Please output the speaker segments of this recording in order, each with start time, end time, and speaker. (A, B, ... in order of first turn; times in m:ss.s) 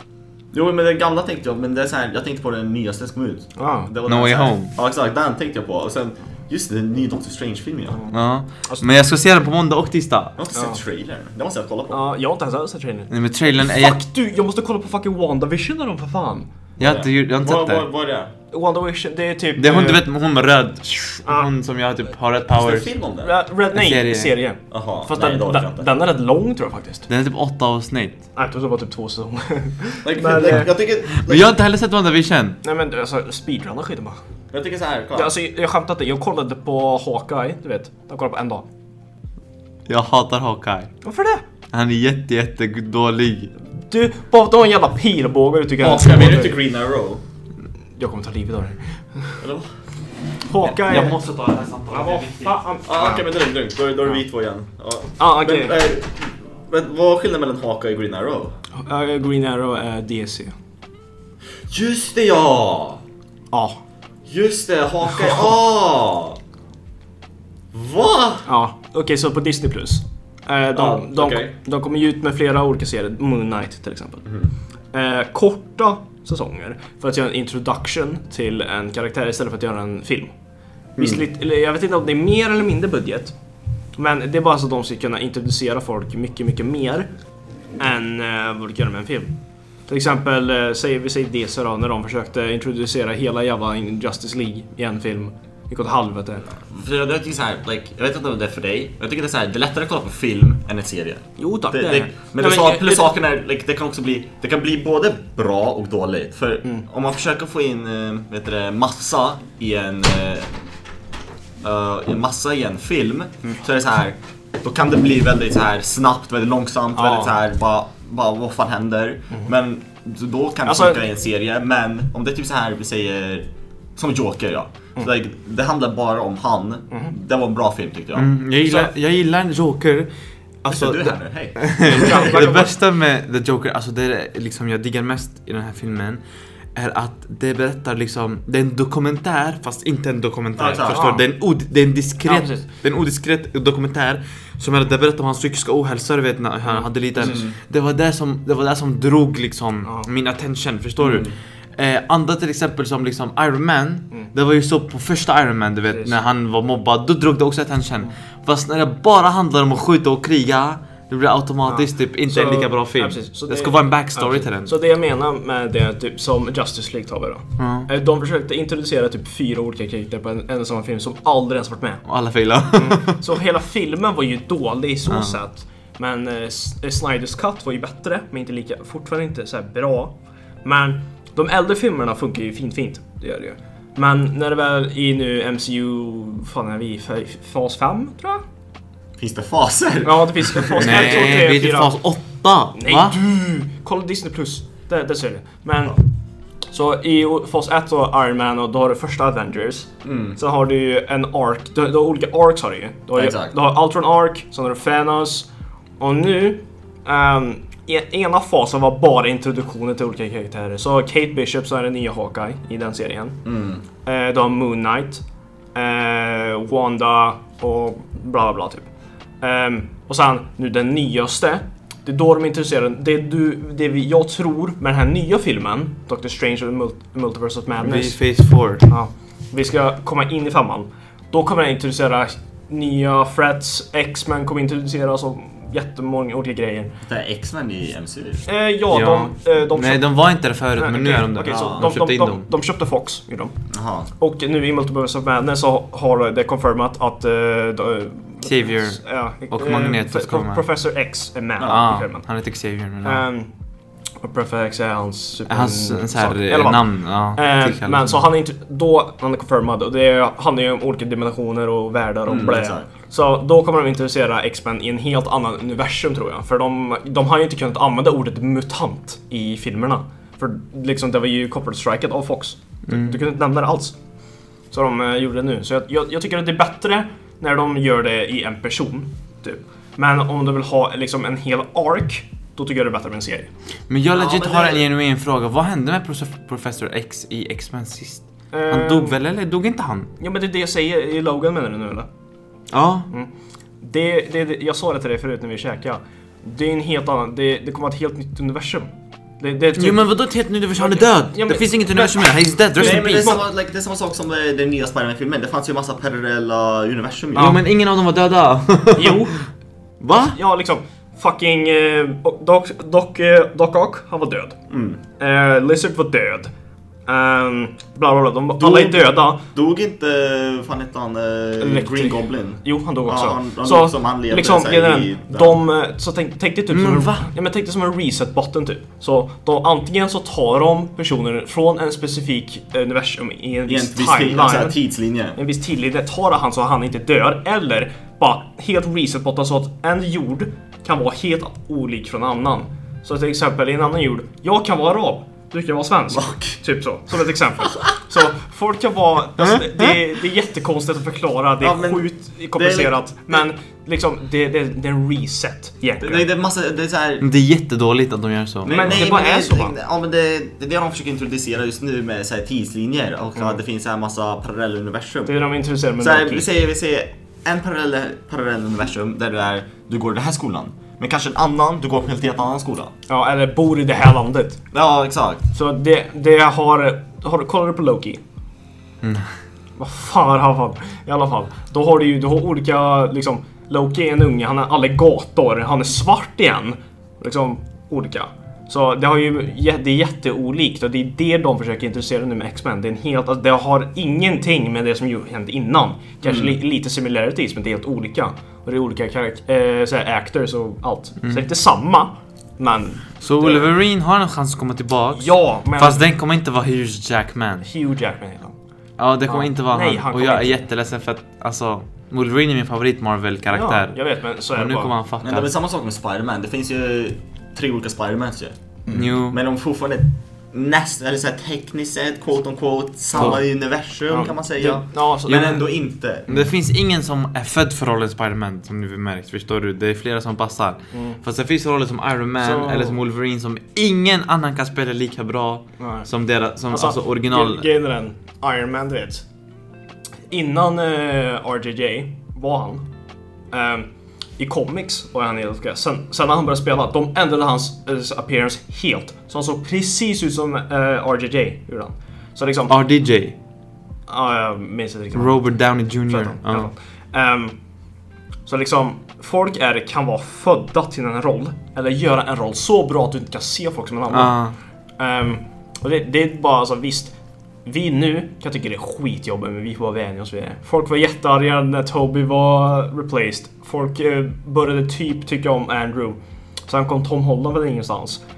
0:00.5-0:08.0 A
0:03.6-0:03.9 B
0:04.0-0:04.7 C
0:07.9-0:08.1 B
0:08.1-0:10.4 C
0:10.4-0:12.0 A
0:10.5-0:10.8 B
0:11.9-0:16.5 B
0:13.1-0:14.0 C
0:16.8-0:17.8 C
0:16.8-0:18.3 A
0:18.5-0:20.0 B
0:19.6-0:22.9 C
0:21.2-0:21.5 B
0:22.5-0:23.3 A
0:23.2-0:27.1 B
0:23.7-0:24.4 C
0:24.7-0:25.9 A
0:27.1-0:28.2 C
0:28.3-0:30.6 B
0:30.0-0:31.5 A
0:30.5-0:32.6 C
0:32.6-0:34.2 B
0:34.5-0:35.3 A
0:35.1-0:38.6 B
0:39.9-0:40.9 C
0:41.0-0:41.4 B
0:41.7-0:43.5 C
0:43.8-0:46.6 B
0:45.8-0:47.2 A
0:48.0-0:49.4 B
0:49.4-0:49.7 A
0:50.5-0:51.2 B
0:50.6-0:52.6 C
0:51.9-0:53.2 B
0:52.9-0:58.5 A
0:55.2-0:55.8 B
0:58.7-1:00.5 B
1:01.7-1:03.0 A
1:03.5-1:03.8 B
1:04.2-1:06.4 A
1:07.7-1:08.5 A
1:08.4-1:14.3 B
1:10.7-1:11.5 A
1:14.9-1:20.3 B
1:21.0-1:23.3 B
1:24.0-1:27.1 B
1:27.8-1:29.3 B
1:29.9-1:36.5 B
1:36.6-1:50.5 A
1:41.4-1:43.1 B
1:51.6-2:08.9 A
1:56.9-1:57.3 B
2:00.6-2:01.0 B
2:08.1-2:10.1 C
2:10.6-2:16.2 C
2:10.6-2:12.5 A
2:11.8-2:12.7 B
2:16.7-2:44.7 C
2:20.6-2:21.0 A
2:20.9-2:21.2 B
2:22.2-2:22.6 B
2:26.6-2:27.3 B
2:27.2-2:27.6 A
2:31.0-2:31.3 A
2:35.9-2:36.2 B
2:41.6-2:52.0 B
2:47.6-2:47.9 C
2:52.1-2:53.2 C
2:52.7-3:08.4 B
2:55.1-2:55.4 C
3:09.2-3:11.5 A
3:10.0-3:12.0 B
3:10.8-3:13.2 C
3:12.7-3:16.0 B
3:16.7-3:25.5 B
3:20.0-3:20.4 A
3:23.2-3:23.5 A
3:26.0-3:33.4 B
3:33.4-3:33.8 A
3:34.0-3:35.2 B
3:35.7-3:38.9 B
3:39.4-3:48.2 B
3:47.8-3:48.8 C
3:48.8-3:56.9 B
3:57.0-3:58.4 A
3:58.4-4:00.1 B
3:58.9-4:02.5 C
4:00.8-4:03.5 B
4:01.4-4:01.9 A
4:03.7-4:04.1 A
4:04.2-4:12.2 B
4:08.4-4:10.6 C
4:11.6-4:11.8 A
4:11.6-4:13.2 C
4:13.0-4:13.5 B
4:14.2-4:34.0 B
4:15.5-4:18.2 C
4:22.3-4:22.9 A
4:32.9-4:33.2 C
4:34.7-4:43.5 B
4:43.9-4:50.1 C
4:44.1-4:44.8 A
4:48.5-4:49.2 B
4:50.2-4:52.1 B
4:52.7-4:53.1 C
4:53.8-5:00.1 B
4:59.8-5:03.3 C
5:00.7-5:02.1 B
5:02.7-5:03.4 B
5:02.8-5:07.6 A
5:07.3-5:07.6 B
5:07.4-5:09.3 C
5:09.0-5:09.4 B
5:10.0-5:10.4 C
5:10.3-5:14.6 B
5:14.7-5:15.0 A
5:15.2-5:16.5 B
5:17.1-5:19.4 B
5:18.6-5:25.6 A
5:21.6-5:34.8 B
5:26.7-5:27.3 C
5:33.6-5:35.4 A
5:35.4-5:56.3 B
5:46.1-5:46.6 A
5:49.4-5:49.9 C
5:51.6-5:53.4 A
5:56.0-5:57.2 A
5:57.2-5:59.0 C
5:58.6-6:05.4 A
5:58.6-5:59.7 B
6:05.3-6:06.5 B
6:06.0-6:12.9 A
6:13.1-6:14.6 B
6:14.7-6:15.5 A
6:15.5-6:18.2 B
6:19.0-6:19.3 C
6:19.8-6:43.7 B
6:36.2-6:36.6 A
6:43.2-6:47.7 C
6:45.1-6:46.0 B
6:47.6-6:48.6 B
6:49.0-6:54.0 C
6:49.2-6:50.6 B
6:53.5-6:54.9 B
6:54.5-6:55.5 C
6:55.2-7:06.5 A
6:58.9-6:59.4 C
7:03.2-7:03.4 B
7:04.1-7:05.7 B
7:06.3-7:17.7 C
7:10.9-7:11.2 B
7:12.4-7:13.0 B
7:15.8-7:16.1 B
7:16.7-7:19.2 B
7:20.3-7:22.9 B
7:23.5-7:23.9 B
7:24.4-7:32.8 B
7:32.7-7:33.4 C
7:34.1-7:37.6 B
7:35.1-7:36.7 C
7:38.4-7:44.4 B
7:44.1-7:44.5 C
7:45.0-7:58.2 B